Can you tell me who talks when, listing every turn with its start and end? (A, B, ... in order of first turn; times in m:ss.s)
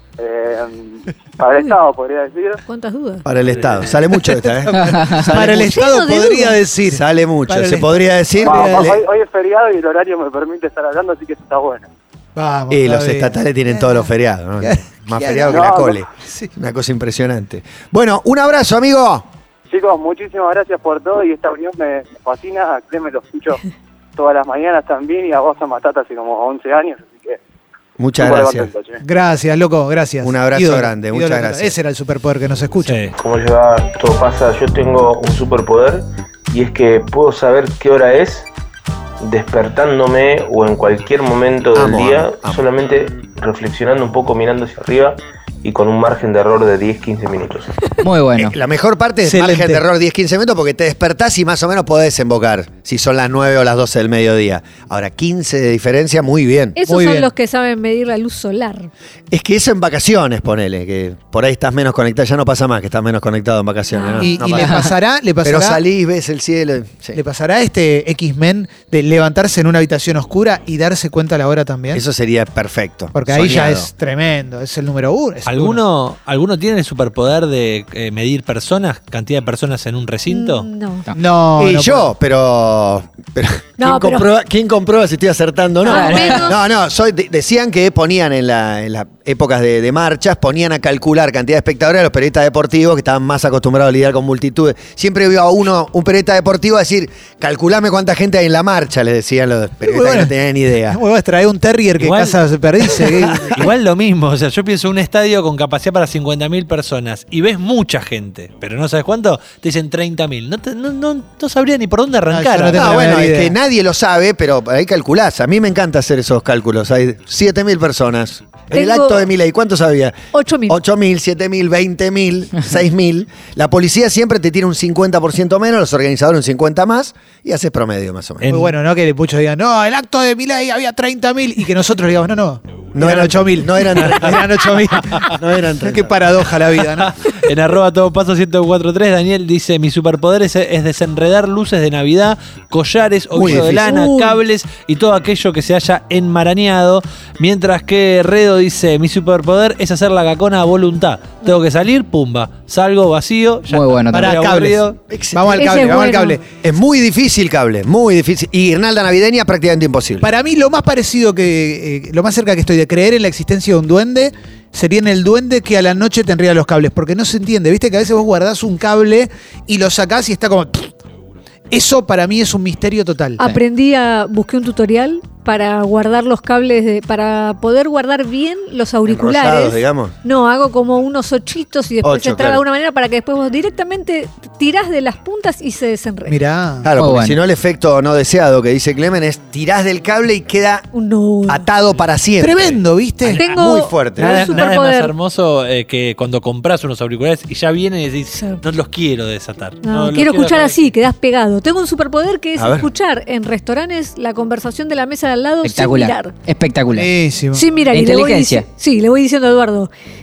0:00.2-0:02.6 A
0:02.7-0:03.2 B
0:03.2-0:05.9 C
0:04.2-0:09.0 D
0:04.8-0:05.2 E
0:05.5-0:06.6 B
0:06.8-0:09.0 C
0:08.4-0:11.9 A
0:12.4-0:14.1 D
0:12.7-0:19.3 C
0:14.6-0:15.7 D
0:15.5-0:16.0 A
0:16.2-0:16.5 D
0:19.7-0:23.6 A
0:24.2-0:27.4 A
0:28.0-0:28.7 C
0:28.2-0:29.0 A
0:29.0-0:33.1 D
0:30.2-0:31.8 C
0:32.8-0:33.1 F
0:33.1-0:38.5 G
0:39.2-0:47.7 G
0:41.7-0:42.6 C
0:48.0-0:48.5 E
0:48.4-0:56.8 C
0:49.2-0:49.8 D
0:56.8-0:58.9 B
0:56.9-0:57.3 D
0:59.3-1:07.2 C
1:03.9-1:04.3 B
1:04.2-1:05.8 D
1:07.1-1:12.0 D
1:11.9-1:13.9 C
1:13.1-1:15.8 D
1:15.4-1:20.7 F
1:20.3-1:21.1 B
1:21.1-1:22.1 D
1:21.6-1:41.0 C
1:23.8-1:24.3 B
1:25.8-1:26.6 B
1:25.8-1:26.5 E
1:39.8-1:40.3 D
1:40.9-1:43.6 D
1:42.0-1:42.4 F
1:42.9-1:52.9 F
1:52.3-1:53.5 D
1:52.7-2:08.5 C
1:58.7-1:59.2 B
2:00.3-2:00.8 B
2:08.4-2:08.7 F
2:08.5-2:17.1 D
2:12.9-2:14.5 C
2:14.0-2:14.3 F
2:15.2-2:16.4 C
2:17.0-2:35.0 F
2:23.4-2:24.0 C
2:23.4-2:23.7 D
2:23.8-2:24.4 B
2:33.7-2:34.4 E
2:34.1-2:36.4 D
2:35.1-2:36.0 C
2:35.5-2:36.4 B
2:36.6-2:40.3 C
2:40.2-2:50.9 D
2:51.7-2:53.4 D
2:53.4-3:06.4 B
2:59.0-3:00.1 C
3:02.0-3:02.6 C
3:06.3-3:06.9 D
3:06.8-3:10.8 C
3:07.0-3:07.4 E
3:10.9-3:11.6 B
3:11.4-3:12.8 C
3:12.4-3:13.4 D
3:13.3-3:20.9 F
3:13.4-3:15.1 B
3:13.4-3:14.4 C
3:18.3-3:18.6 B
3:19.8-3:26.3 B
3:22.6-3:22.9 C
3:25.6-3:27.1 E
3:26.9-3:27.7 D
3:27.5-3:29.9 B
3:27.9-3:28.6 E